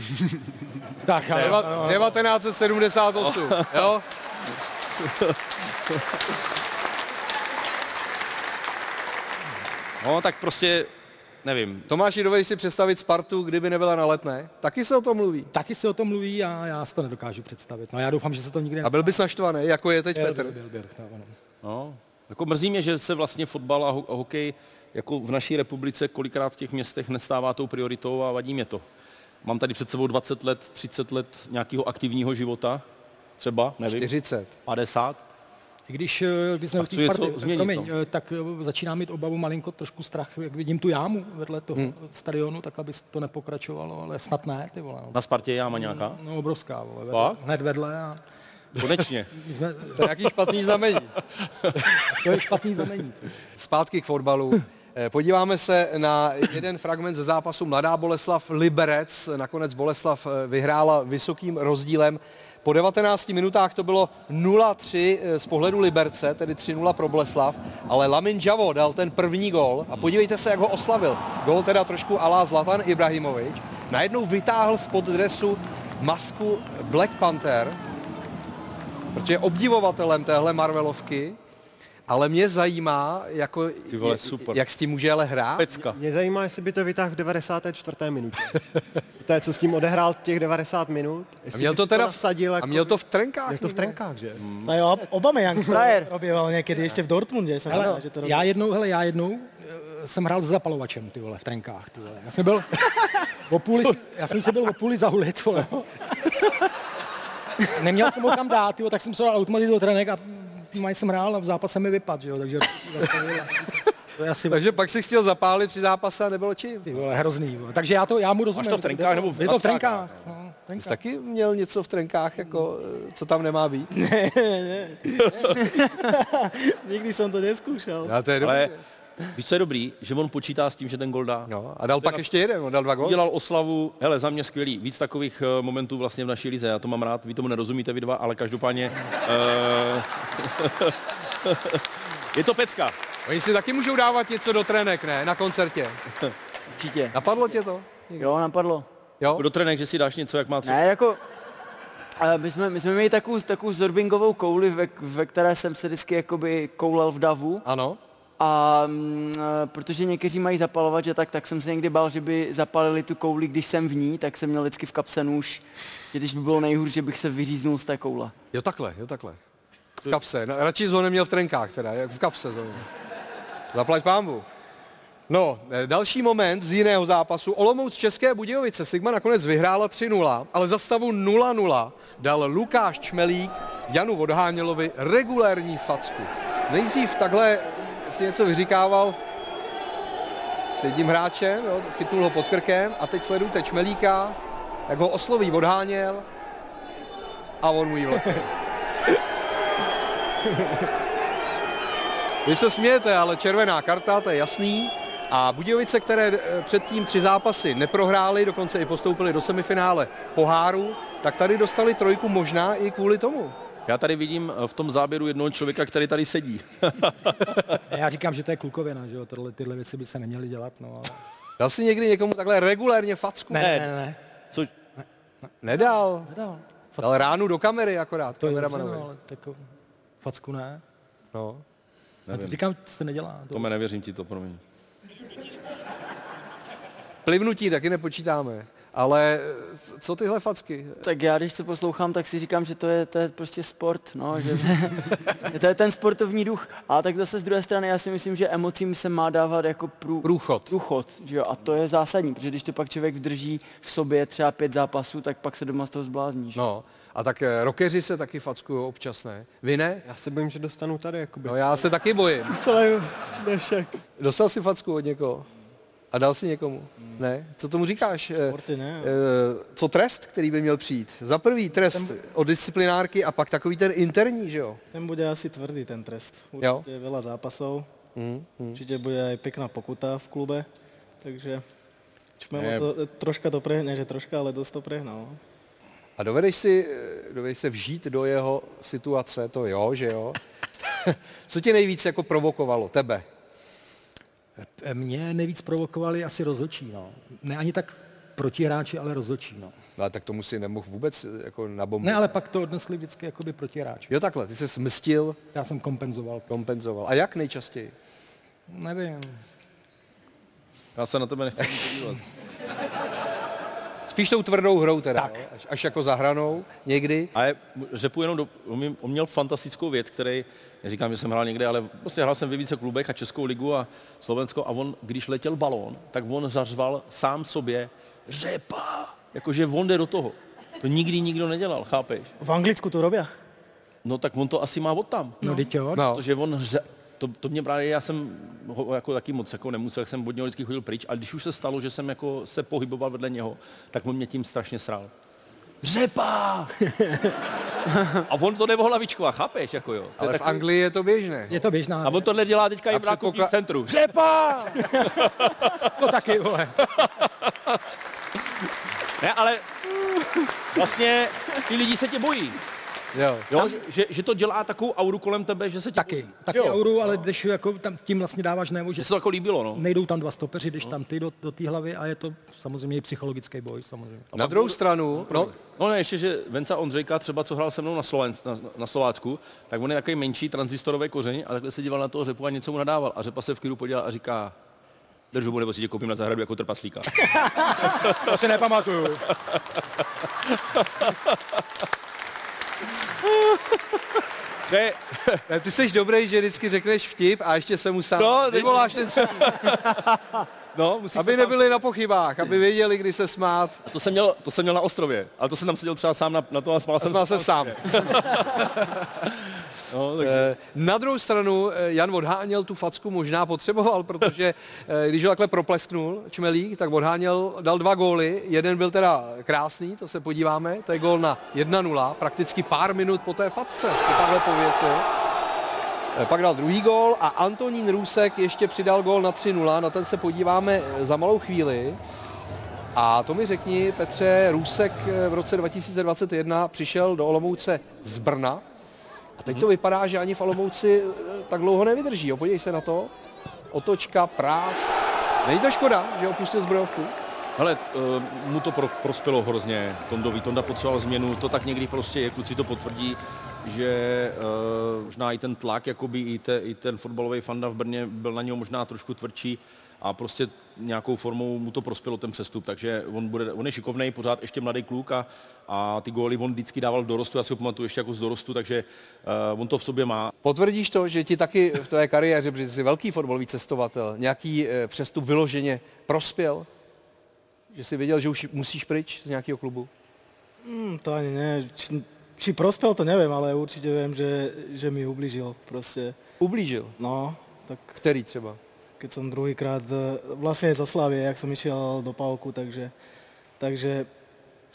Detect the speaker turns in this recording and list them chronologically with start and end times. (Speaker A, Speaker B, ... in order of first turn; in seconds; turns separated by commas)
Speaker A: 1.0-2.1, Speaker B: 1.3-1.9, Speaker C: 1.3-4.0, Speaker B: 3.2-3.9, Speaker B: 5.0-5.3, Speaker B: 10.0-10.9, Speaker B: 11.4-11.9, Speaker C: 11.9-15.5, Speaker A: 15.5-19.2, Speaker C: 18.8-20.5, Speaker A: 20.1-21.3, Speaker B: 21.6-28.8, Speaker B: 29.4-32.8, Speaker B: 33.4-34.1, Speaker C: 33.9-34.5, Speaker B: 34.6-35.2, Speaker A: 35.9-45.2, Speaker B: 36.8-37.9, Speaker B: 45.1-46.2, Speaker A: 45.7-48.2, Speaker B: 47.1-47.4, Speaker B: 48.8-49.3, Speaker A: 49.3-50.1, Speaker C: 50.0-51.1, Speaker A: 52.1-53.2, Speaker C: 53.6-77.8, Speaker C: 79.1-81.4, Speaker C: 82.1-85.7, Speaker B: 83.9-84.6, Speaker B: 85.6-86.0, Speaker D: 85.9-88.6, Speaker D: 89.2-94.5, Speaker C: 91.5-94.0, Speaker B: 94.4-94.7, Speaker E: 94.6-98.5, Speaker A: 97.7-105.8, Speaker A: 107.6-114.7, Speaker C: 114.5-116.9, Speaker A: 116.9-121.0, Speaker B: 118.5-120.3, Speaker C: 120.8-123.9, Speaker E: 123.9-128.2, Speaker B: 125.3-125.5, Speaker C: 128.0-128.8, Speaker B: 128.4-128.7, Speaker B: 129.3-131.5, Speaker C: 131.5-133.2, Speaker B: 132.0-132.2, Speaker B: 133.0-141.8, Speaker B: 142.3-142.9, Speaker C: 143.2-146.0, Speaker F: 146.7-147.2, Speaker C: 147.1-148.3, Speaker F: 148.2-148.9, Speaker B: 149.3-150.8, Speaker F: 150.6-151.2, Speaker F: 152.2-157.6, Speaker C: 157.6-158.0, Speaker F: 158.4-168.3, Speaker C: 168.5-169.4, Speaker C: 170.0-172.8, Speaker C: 173.7-174.4, Speaker C: 175.3-189.2, Speaker C: 190.7-194.4, Speaker C: 194.9-196.3, Speaker C: 197.6-198.5, Speaker E: 200.5-200.8, Speaker C: 202.4-213.5, Speaker B: 213.9-217.8, Speaker A: 217.9-221.2, Speaker C: 221.6-223.7, Speaker A: 223.5-224.2, Speaker B: 223.6-223.9, Speaker C: 225.6-226.3, Speaker A: 226.3-227.1, Speaker C: 227.0-229.1, Speaker A: 228.4-229.6, Speaker A: 230.2-230.8, Speaker C: 231.3-231.6, Speaker B: 232.3-232.6, Speaker A: 232.3-233.7, Speaker B: 233.5-234.6, Speaker C: 237.2-241.0, Speaker F: 241.0-256.6, Speaker C: 250.2-250.7, Speaker C: 256.5-260.0, Speaker D: 260.0-261.9, Speaker C: 261.4-262.5, Speaker E: 262.5-263.9, Speaker C: 264.2-265.5, Speaker C: 266.1-274.8, Speaker E: 268.3-269.2, Speaker E: 274.9-277.9, Speaker C: 278.1-278.8, Speaker E: 278.7-280.7, Speaker E: 281.2-281.6, Speaker E: 282.4-285.4, Speaker C: 286.2-290.4, Speaker C: 291.0-293.2, Speaker A: 294.6-299.7, Speaker C: 300.0-302.3, Speaker A: 302.0-304.1, Speaker C: 304.1-305.4, Speaker A: 305.5-306.5, Speaker C: 306.5-307.9, Speaker A: 308.7-309.4, Speaker B: 310.9-312.2, Speaker C: 314.1-317.3, Speaker B: 317.3-332.3, Speaker E: 332.4-333.3, Speaker B: 334.0-345.1, Speaker A: 335.4-336.1, Speaker C: 335.9-336.2, Speaker B: 345.8-346.8, Speaker B: 348.2-350.6, Speaker C: 350.2-351.5, Speaker A: 351.5-352.2, Speaker B: 352.0-355.9, Speaker C: 352.9-353.5, Speaker A: 354.7-355.1, Speaker A: 355.9-356.8, Speaker B: 356.8-357.7, Speaker B: 359.2-362.6, Speaker C: 363.1-363.6, Speaker B: 363.5-366.7, Speaker A: 365.9-369.1, Speaker B: 369.0-369.8, Speaker A: 369.7-374.3, Speaker B: 374.3-384.5, Speaker C: 374.3-375.5, Speaker B: 385.3-387.3, Speaker A: 387.2-389.2, Speaker B: 387.9-388.4, Speaker B: 390.5-391.6, Speaker B: 393.2-395.4, Speaker C: 395.5-399.8, Speaker B: 398.2-400.2, Speaker B: 400.7-401.8, Speaker C: 401.1-403.8, Speaker B: 403.9-410.5, Speaker C: 407.0-408.1, Speaker C: 410.2-425.1, Speaker C: 426.1-432.0, Speaker C: 432.9-438.6, Speaker C: 439.4-443.1, Speaker C: 443.7-447.1, Speaker B: 447.6-470.3, Speaker C: 470.4-476.7, Speaker C: 477.7-479.9, Speaker E: 480.6-486.2, Speaker C: 486.4-487.0, Speaker E: 487.0-488.0, Speaker C: 488.0-488.6, Speaker E: 489.0-492.9, Speaker E: 493.6-494.1